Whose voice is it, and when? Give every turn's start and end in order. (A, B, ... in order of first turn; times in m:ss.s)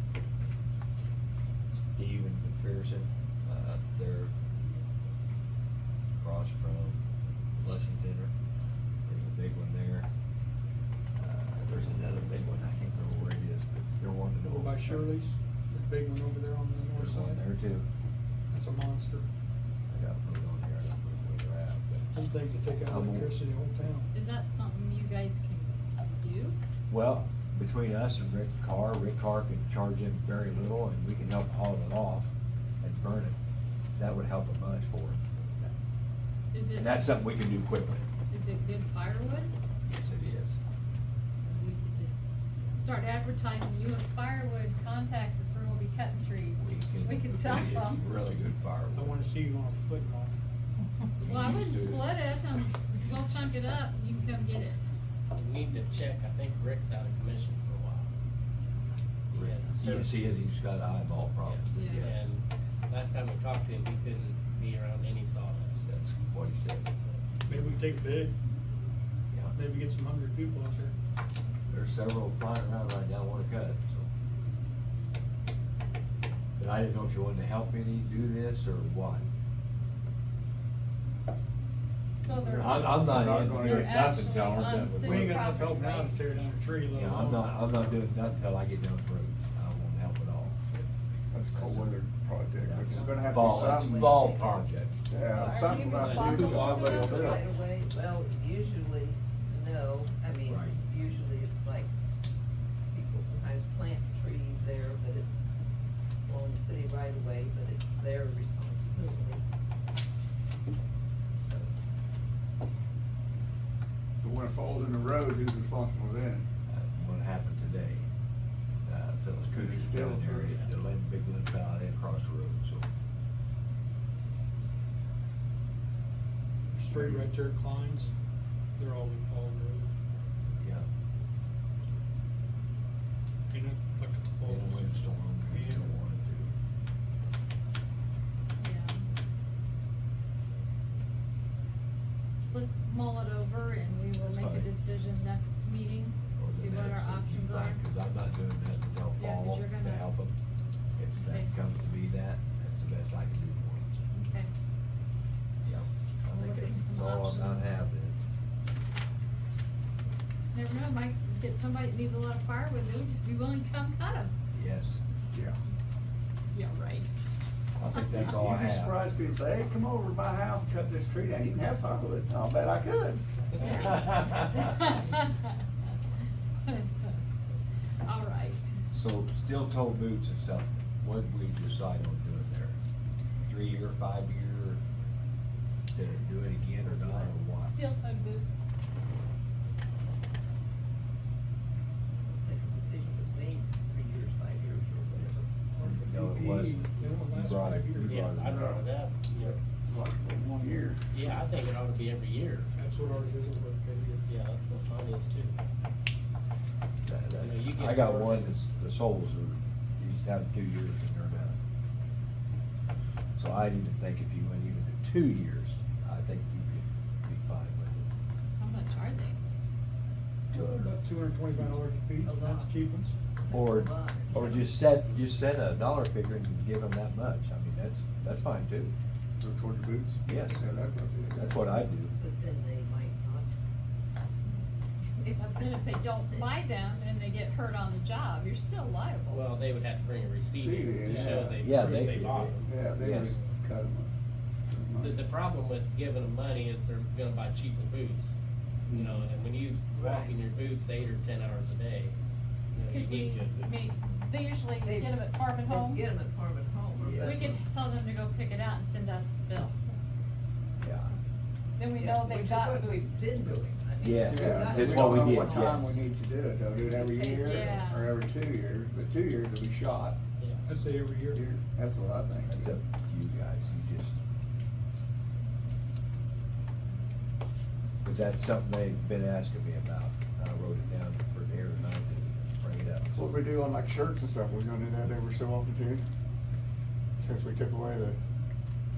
0:02.0-0:04.3 A
0:06.2-0:08.3 A
0:09.0-0:10.1 A
0:11.2-0:15.1 A
0:14.4-0:17.4 B
0:17.0-0:17.9 A
0:18.5-0:19.3 B
0:19.9-0:22.1 A
0:22.1-0:24.1 B
0:22.8-0:23.4 A
0:24.1-0:26.6 C
0:26.9-0:32.3 A
0:32.8-0:33.4 A
0:34.0-0:35.6 A
0:36.5-0:37.0 C
0:36.8-0:38.1 A
0:38.3-0:39.5 C
0:39.8-0:40.6 A
0:41.4-0:48.0 C
0:46.6-0:49.2 A
0:48.9-0:50.4 B
0:51.2-0:52.1 A
0:51.2-0:54.8 C
0:55.3-0:58.1 D
0:59.3-1:02.1 A
0:59.3-1:00.2 D
1:01.4-1:05.9 D
1:01.7-1:02.1 C
1:05.9-1:06.9 A
1:07.5-1:08.3 B
1:09.3-1:09.6 A
1:09.5-1:10.9 B
1:11.7-1:14.1 A
1:16.6-1:19.3 A
1:22.2-1:26.6 C
1:22.5-1:24.3 E
1:22.5-1:25.6 A
1:25.0-1:27.8 B
1:26.9-1:30.6 A
1:31.3-1:34.3 E
1:31.6-1:31.9 A
1:32.6-1:34.9 A
1:32.8-1:34.8 F
1:35.1-1:37.4 E
1:35.3-1:37.3 C
1:35.4-1:41.9 F
1:35.9-1:37.3 D
1:36.2-1:37.4 A
1:40.5-1:40.8 A
1:42.9-1:45.6 F
1:46.2-1:49.4 F
1:54.2-1:56.5 E
1:56.7-1:58.1 A
1:58.9-2:02.9 A
1:59.5-2:00.6 E
2:06.7-2:08.1 B
2:06.9-2:07.2 E
2:08.8-2:09.9 B
2:10.6-2:10.9 A
2:13.5-2:16.0 B
2:14.5-2:16.5 A
2:18.6-2:19.0 C
2:22.5-2:27.8 C
2:24.2-2:24.7 A
2:26.4-2:30.3 A
2:29.2-2:30.1 C
2:31.0-2:33.9 A
2:31.2-2:31.5 C
2:34.1-2:34.5 C
2:35.6-2:38.2 A
2:36.3-2:37.9 C
2:40.5-2:44.3 C
2:44.5-2:45.0 A
2:45.3-2:45.6 E
2:46.5-2:47.1 C
2:47.8-2:49.0 A
2:48.1-2:53.2 E
2:53.6-2:55.5 C
2:53.6-2:54.8 A
2:56.7-2:57.2 C
2:58.0-2:58.7 C
2:58.9-3:02.8 A
3:03.4-3:04.8 A
3:05.9-3:07.8 A
3:06.8-3:07.3 F
3:07.6-3:08.6 C
3:12.3-3:15.4 F
3:15.8-3:18.2 B
3:15.8-3:18.8 A
3:18.1-3:19.6 D
3:18.4-3:21.0 E
3:21.1-3:23.3 D
3:22.8-3:24.3 B
3:24.3-3:25.6 D
3:27.0-3:31.6 A
3:27.4-3:28.5 D
3:33.4-3:38.1 A
3:38.6-3:39.4 C
3:40.5-3:41.0 A
3:40.5-3:43.2 B
3:42.2-3:42.7 F
3:43.4-3:44.8 F
3:43.5-3:48.9 A
3:49.4-3:51.6 E
3:50.3-3:50.6 A
3:51.3-3:52.1 A
3:52.2-3:53.5 F
3:55.3-3:59.5 C
3:59.3-4:02.7 D
4:00.5-4:01.7 E
4:01.6-4:03.4 A
4:02.6-4:04.1 E
4:04.7-4:05.2 E
4:05.0-4:08.4 D
4:08.9-4:12.2 D
4:09.9-4:10.4 F
4:12.7-4:13.9 D
4:12.9-4:16.0 C
4:14.8-4:17.6 F
4:17.0-4:17.5 A
4:17.2-4:19.8 C
4:20.8-4:21.1 A
4:21.8-4:23.1 C
4:21.9-4:25.8 F
4:24.0-4:26.0 A
4:24.2-4:30.2 E
4:26.7-4:27.8 F
4:27.4-4:28.1 C
4:30.7-4:31.4 B
4:31.3-4:32.8 E
4:32.5-4:34.1 A
4:38.0-4:43.2 A
4:43.2-4:46.0 E
4:47.2-4:48.2 E